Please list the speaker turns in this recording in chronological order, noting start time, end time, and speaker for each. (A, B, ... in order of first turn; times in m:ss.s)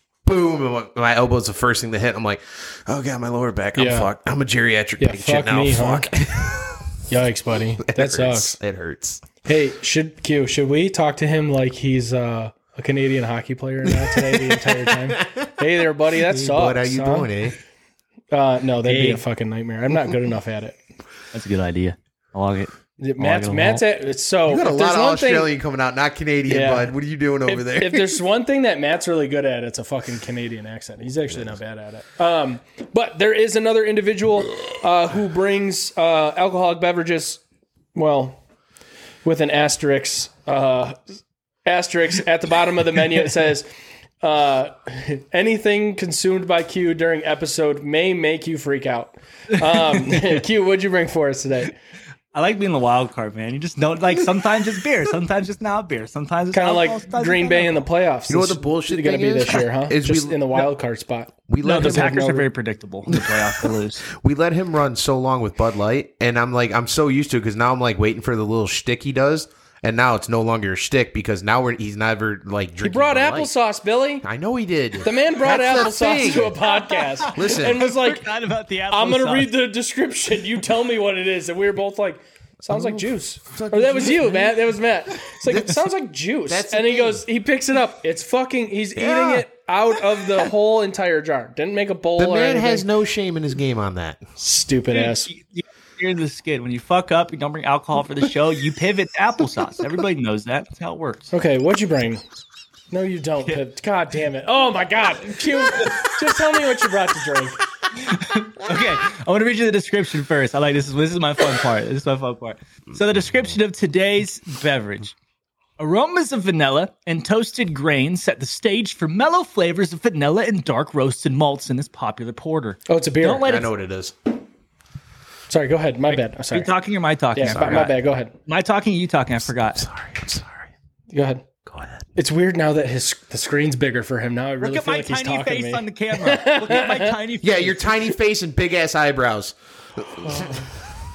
0:00.2-0:06.9 A
0:03.8-0:04.1 B
0:05.0-0:06.1 B
0:07.1-0:08.5 B
0:07.8-0:09.4 A
0:09.4-0:17.3 B
0:13.9-0:17.6 A
0:18.3-0:20.8 B
0:18.9-0:19.2 C
0:21.3-0:23.8 C
0:23.0-0:25.5 B
0:24.5-0:28.2 A
0:26.5-0:26.9 B
0:27.5-0:37.4 B
0:31.3-0:31.6 A
0:38.0-0:38.4 B
0:39.2-0:41.0 B
0:41.6-0:43.7 B
0:44.2-0:51.8 B
0:52.3-0:57.8 C
0:56.5-1:02.5 B
0:58.3-1:00.7 A
1:01.5-1:02.2 A
1:01.6-1:04.0 C
1:03.3-1:13.5 A
1:12.8-1:14.3 B
1:14.2-1:16.7 A
1:15.0-1:18.3 B
1:16.6-1:19.5 C
1:17.3-1:17.8 A
1:18.9-1:32.9 B
1:22.7-1:25.9 A
1:26.5-1:27.2 A
1:29.0-1:29.5 A
1:32.2-1:34.2 A
1:34.4-1:35.3 B
1:34.9-1:41.3 C
1:41.3-1:42.2 B
1:42.9-1:47.6 B
1:45.7-1:46.0 C
1:48.0-1:55.2 C
1:55.8-2:03.7 C
2:02.9-2:03.6 B
2:03.4-2:04.2 A
2:05.5-2:06.7 B
2:06.1-2:09.9 C
2:07.3-2:08.3 B
2:07.4-2:08.0 A
2:09.4-2:10.7 A
2:11.1-2:11.4 B
2:11.7-2:12.1 A
2:12.2-2:17.2 B
2:14.6-2:18.0 C
2:17.4-2:20.7 A